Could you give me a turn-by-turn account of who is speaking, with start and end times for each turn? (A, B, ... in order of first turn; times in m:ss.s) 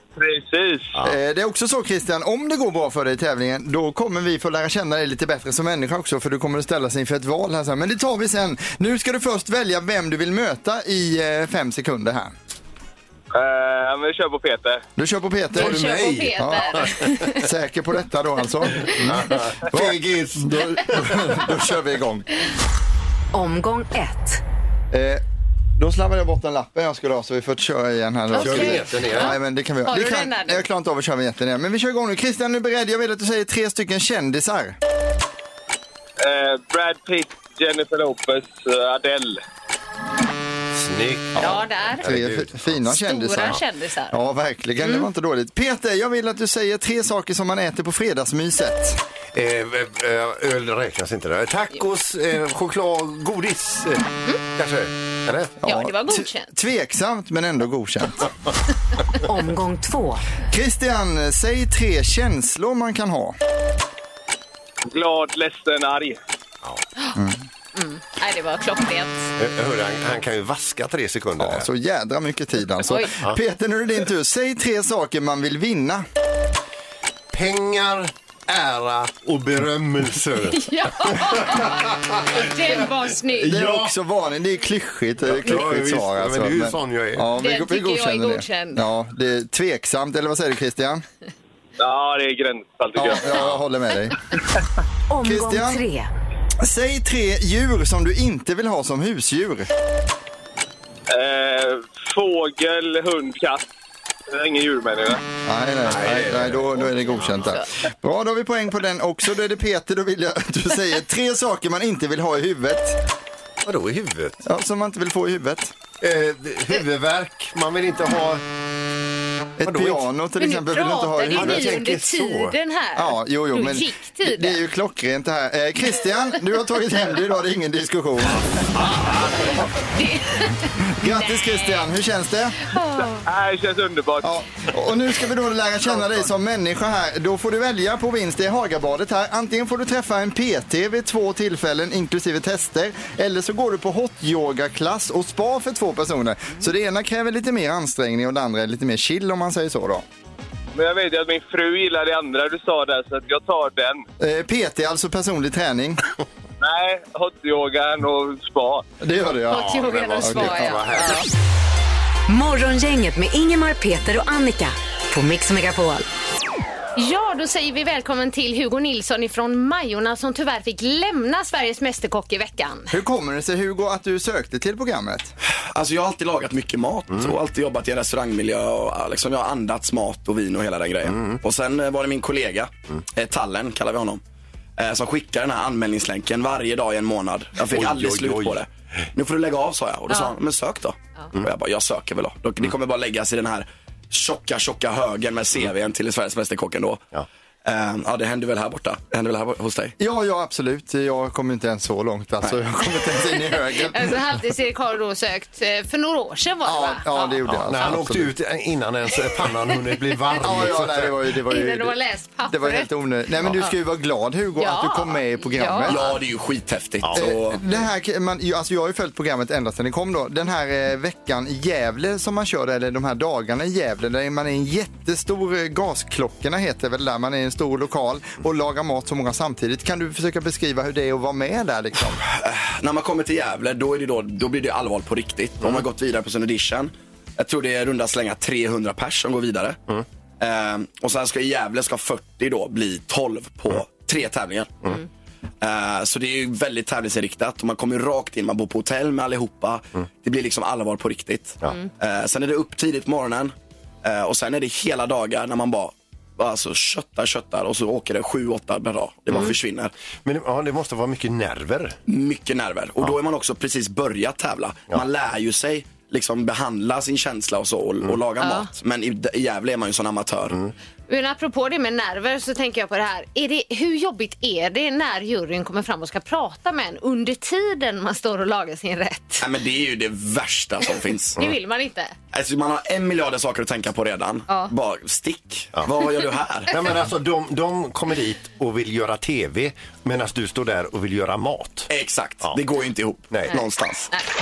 0:00.2-0:01.0 A
0:01.0-0:12.3 B
0:13.3-0:14.8 A
0:15.0-0:16.8 B
0:15.5-0:17.4 C
0:15.6-0:17.3 D
0:17.3-0:22.3 B
0:18.8-0:21.4 D
0:23.3-0:24.4 E
0:24.9-0:25.2 B
0:25.8-0:34.8 B
0:28.3-0:30.6 C
0:28.4-0:29.3 D
0:36.2-0:39.4 A
0:40.7-0:42.8 D
0:41.4-0:42.1 C
0:42.0-0:43.6 B
0:43.0-0:44.2 C
0:44.1-0:49.0 B
0:49.3-0:55.5 D
0:55.6-0:58.3 B
0:55.6-0:56.5 C
0:59.2-1:00.2 E
1:00.5-1:03.4 B
1:04.8-1:06.2 A
1:07.1-1:07.4 B
1:07.7-1:09.3 C
1:09.4-1:11.6 D
1:11.4-1:16.0 B
1:17.3-1:22.2 D
1:20.5-1:23.7 C
1:23.4-1:31.0 B
1:23.5-1:23.9 D
1:25.2-1:27.3 D
1:27.4-1:28.8 C
1:31.8-1:33.4 A
1:32.9-1:34.2 B
1:35.1-1:36.1 E
1:35.2-1:35.8 B
1:36.6-1:39.7 B
1:41.1-1:43.6 A
1:44.3-1:45.2 A
1:45.4-1:53.0 B
1:45.9-1:47.5 D
1:47.1-1:47.6 C
1:53.6-1:54.4 D
1:54.4-1:55.7 B
1:56.0-1:58.4 D
1:59.6-2:01.8 B
1:59.6-2:00.0 D
2:00.4-2:04.6 C
2:01.3-2:02.6 D
2:03.0-2:08.5 B
2:08.8-2:09.2 D
2:09.9-2:11.9 C
2:11.0-2:12.6 B
2:12.6-2:13.2 C
2:13.2-2:14.3 A
2:14.2-2:30.0 B
2:30.7-2:34.0 A
2:34.2-2:36.0 B
2:36.6-2:38.8 A
2:39.0-2:40.8 B
2:39.5-2:41.3 C
2:39.5-2:41.2 D
2:42.3-2:46.0 E
2:47.0-2:52.9 C
2:52.9-2:55.3 B
2:55.7-3:04.2 F
3:01.1-3:01.4 D
3:04.8-3:17.0 F
3:07.7-3:08.6 D
3:17.6-3:19.9 F
3:20.0-3:24.2 B
3:23.7-3:27.4 C
3:26.6-3:28.3 B
3:27.5-3:31.1 D
3:30.4-3:36.1 B
3:31.5-3:32.9 C
3:34.6-3:36.1 C
3:35.8-3:37.6 F
3:37.0-3:37.3 D
3:37.1-3:52.2 B
3:52.3-3:59.8 F
4:00.4-4:04.9 F
4:05.6-4:13.5 F
4:14.0-4:19.9 F
4:20.2-4:22.0 D
4:22.1-4:30.6 F
4:28.4-4:28.7 C
4:31.1-4:39.4 C
4:39.4-4:41.4 F
4:41.4-4:42.1 C
4:42.3-4:46.7 F
4:46.7-4:51.9 D
4:51.9-4:54.1 F